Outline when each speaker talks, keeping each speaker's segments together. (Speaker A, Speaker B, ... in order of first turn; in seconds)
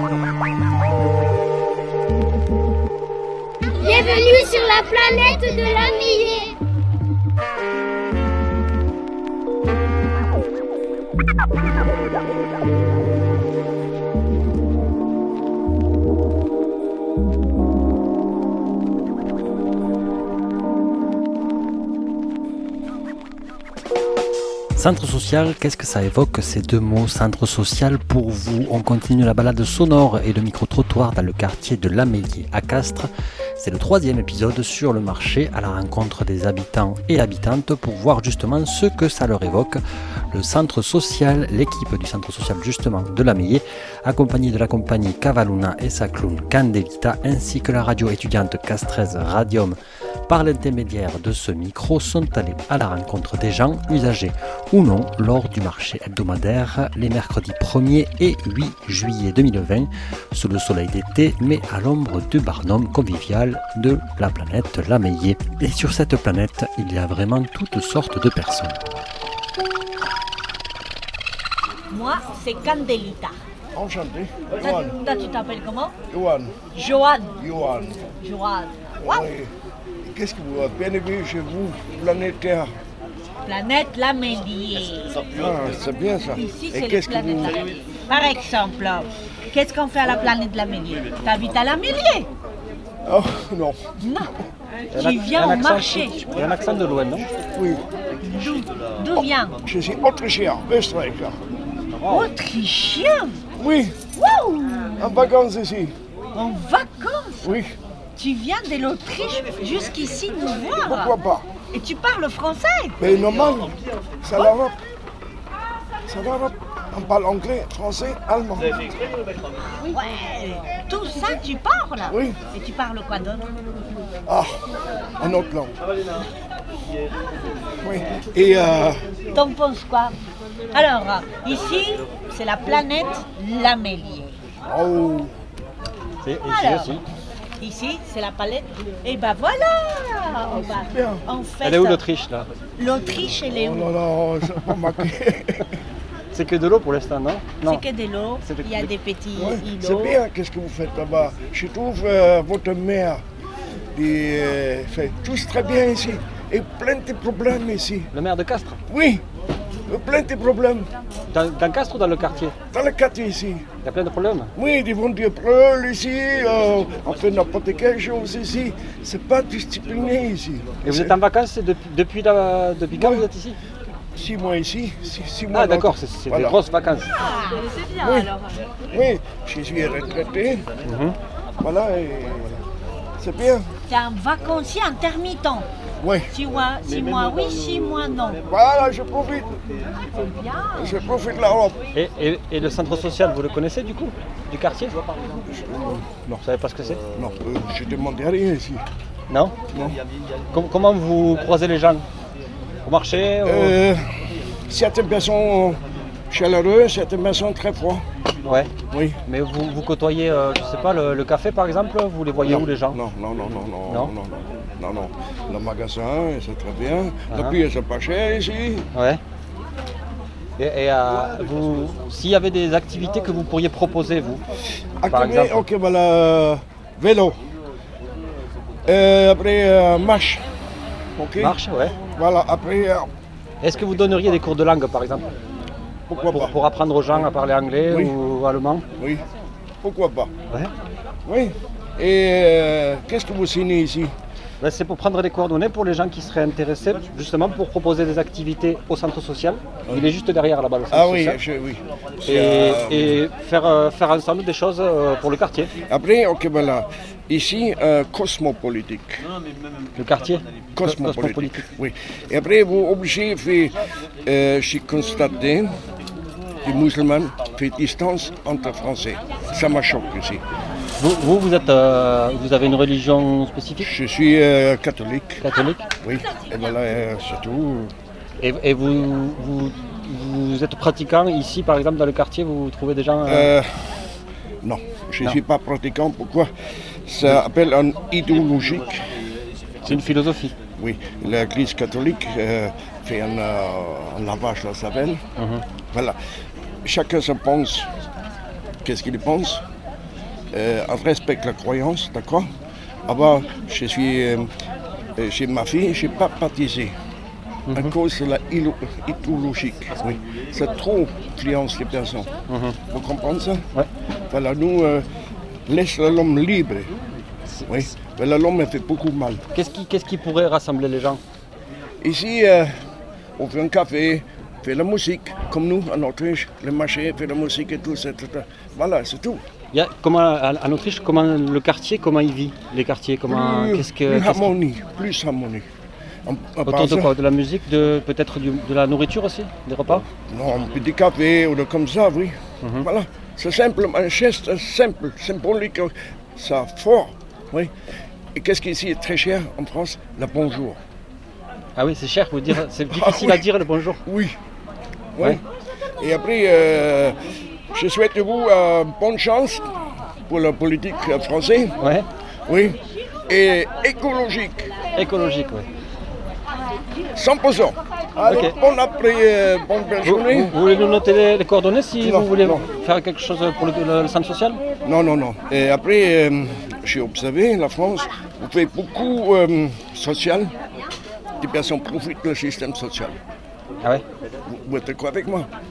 Speaker A: 3.8-6.6
Speaker B: 24.8-49.8, 50.3-68.8
Speaker C: 71.9-73.4, 74.6-76.0, 76.8-77.4, 78.2-79.3, 83.5-85.2, 86.3-92.3, 94.0-94.3, 94.9-96.2, 98.2-99.6, 102.1-103.4, 104.2-105.1, 106.3-107.5, 108.2-111.1, 111.7-113.0, 119.6-123.5, 129.3-130.2, 130.7-134.4, 136.4-137.0, 137.6-142.0, 142.8-143.9, 147.6-150.2, 183.9-185.7, 186.3-188.4
Speaker D: 73.7-75.0, 76.1-76.5, 77.4-78.1, 79.0-79.5, 80.0-82.7, 85.4-87.6, 93.0-93.8, 97.5-97.8, 99.7-101.4, 103.6-104.0, 105.0-105.9, 107.4-107.7, 110.8-111.5, 113.0-114.8, 116.1-118.9, 122.1-122.4, 124.3-124.6, 125.2-125.7, 127.8-129.0, 134.7-135.3, 140.5-141.2, 143.2-145.7, 149.4-153.2, 153.9-158.1, 158.9-159.2, 159.9-160.9, 162.7-163.7, 164.6-171.1, 172.9-173.2, 174.2-176.6, 177.9-178.4, 178.9-180.7, 181.6-182.6, 183.2-183.7, 186.0-186.3, 188.5-189.5, 190.8-191.8, 195.5-196.4, 197.1-198.8, 199.7-200.0, 203.4-204.0, 204.7-205.8, 206.3-208.0, 208.9-209.2, 212.4-218.9, 225.0-227.4, 228.9-230.4, 231.2-231.5, 232.1-233.1, 236.1-236.5, 239.0-239.2, 239.8-240.3, 241.3-244.1, 250.9-253.2, 255.9-259.2, 260.8-265.8, 266.6-270.4, 273.8-275.4, 276.0-277.9, 283.3-283.7, 284.6-286.5, 287.1-288.9, 290.8-295.2, 296.9-297.9, 298.8-299.6, 300.5-302.5, 303.1-304.5, 305.2-306.9, 307.7-312.3, 312.9-313.6, 314.3-315.1, 315.7-316.9, 317.7-319.4, 322.0-322.8, 323.4-329.4, 333.3-335.7, 336.3-337.1, 340.2-347.7, 348.4-350.8, 352.9-353.5, 354.1-354.4, 355.1-355.4, 356.0-357.2, 357.7-359.6, 360.3-361.8, 362.5-364.7, 367.1-370.5, 372.0-372.6, 374.9-380.6, 381.4-383.2, 384.5-385.5
Speaker E: 94.9-97.3, 101.9-102.3, 136.2-137.0, 141.6-142.5, 146.3-147.8, 148.4-148.9, 158.1-158.8, 161.3-162.6, 163.8-164.5, 170.8-173.6, 175.5-177.1, 180.8-181.2, 191.9-195.0, 196.4-197.0, 199.3-199.6, 200.5-202.0, 202.8-203.8, 208.4-208.7, 209.3-213.0, 217.3-217.6, 218.9-219.2, 220.6-224.4, 225.1-225.6, 231.4-231.9, 233.6-235.3, 236.3-238.8, 244.6-251.4, 252.2-255.7, 260.0-261.6, 271.0-273.9, 275.4-275.8, 278.4-283.5, 289.9-290.5, 295.4-295.6, 312.5-312.8, 319.5-321.2, 329.7-334.5, 336.7-340.0, 342.6-342.9, 351.8-354.0, 361.8-362.1, 365.0-365.7, 368.3-368.5, 370.0-374.6